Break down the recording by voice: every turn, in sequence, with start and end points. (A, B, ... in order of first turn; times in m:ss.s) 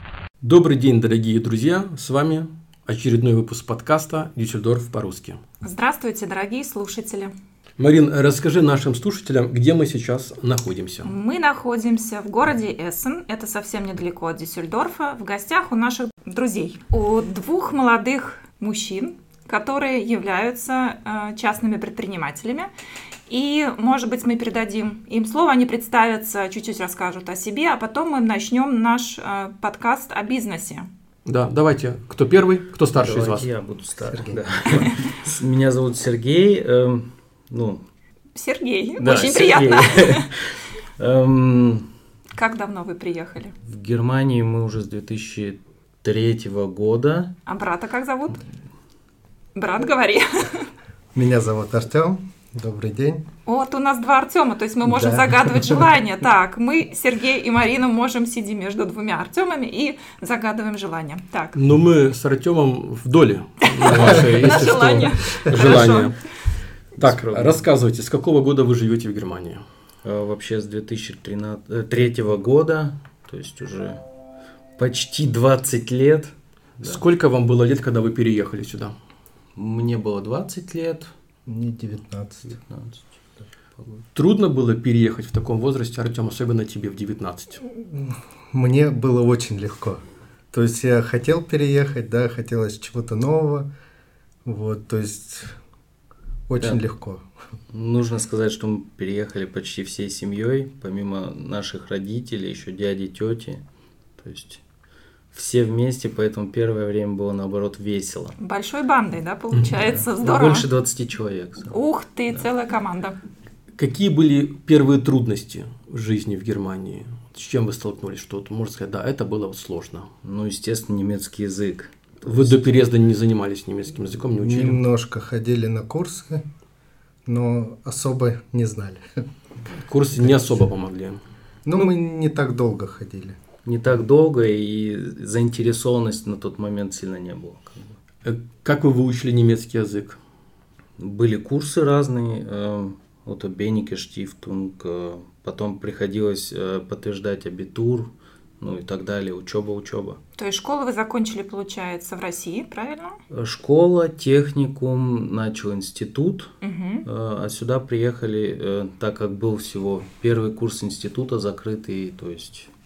0:00.4-0:05.4 A
0:05.6-0:07.3 B
0:07.8-0:11.1 A
0:11.1-0:22.7 B
0:23.3-0:30.9 B
0:31.2-0:33.5 A
0:32.9-0:37.8 C
0:34.1-0:34.4 D
0:38.3-0:40.3 B
0:39.0-0:41.8 C
0:42.3-0:43.5 B
0:43.6-0:47.3 C
0:47.4-0:48.4 B
0:49.5-0:50.7 B
0:51.1-0:53.2 D
0:53.4-1:01.5 B
0:54.8-0:55.8 D
1:01.5-1:06.2 A
1:04.5-1:06.1 B
1:07.0-1:07.6 C
1:07.0-1:09.6 A
1:10.0-1:14.0 C
1:14.8-1:17.0 C
1:16.8-1:18.9 A
1:19.6-1:21.1 C
1:21.5-1:22.6 D
1:22.5-1:23.2 C
1:24.1-1:27.6 A
1:27.7-1:30.0 D
1:30.5-1:33.7 D
1:34.4-1:35.5 D
1:36.5-1:37.2 D
1:37.7-1:43.6 C
1:44.2-1:44.6 C
1:45.3-1:48.4 C
1:48.4-1:50.6 B
1:50.2-1:51.8 C
1:51.7-1:53.2 B
1:53.8-2:00.1 A
2:00.2-2:02.8 C
2:02.2-2:04.8 A
2:04.4-2:06.4 D
2:07.2-2:09.0 D
2:09.8-2:11.2 A
2:11.6-2:13.4 D
2:13.6-2:17.9 C
2:18.2-2:20.2 A
2:21.0-2:30.2 C
2:30.4-2:33.2 B
2:33.3-2:36.5 C
2:36.6-2:37.0 B
2:37.0-2:42.7 C